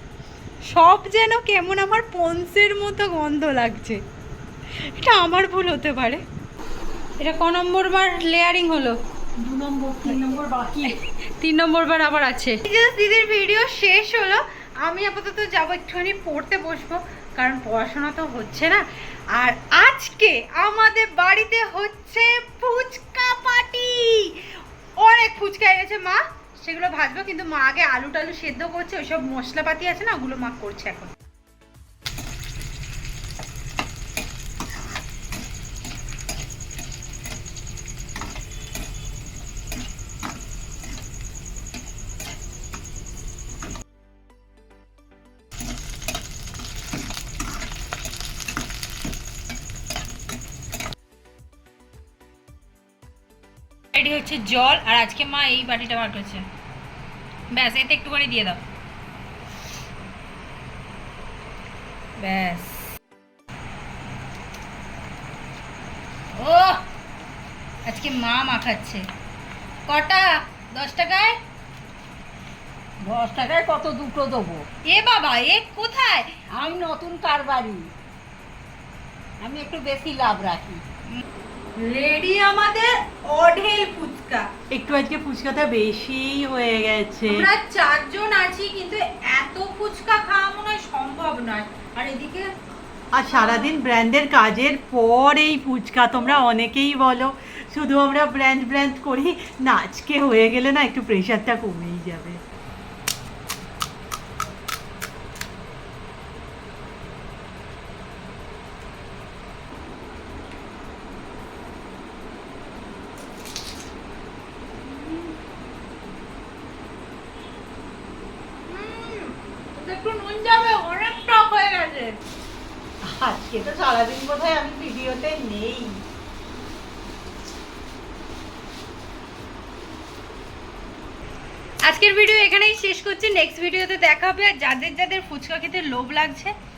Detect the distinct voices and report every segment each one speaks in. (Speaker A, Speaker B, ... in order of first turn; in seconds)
Speaker A: 0.7-4.0, 4.8-6.2, 7.2-9.0, 10.8-18.8, 19.3-31.1, 53.9-56.5, 57.5-58.6, 62.2-62.9, 66.3-66.8, 67.8-69.0, 69.9-71.4, 74.8-76.4, 81.8-84.5, 87.3-92.5, 93.4-93.7, 114.9-115.3, 118.7-122.2, 131.8-136.5
Speaker B: 9.4-11.0, 84.7-87.5, 93.1-102.4, 123.0-126.0
Speaker C: 73.0-74.7, 76.5-77.9, 79.4-80.8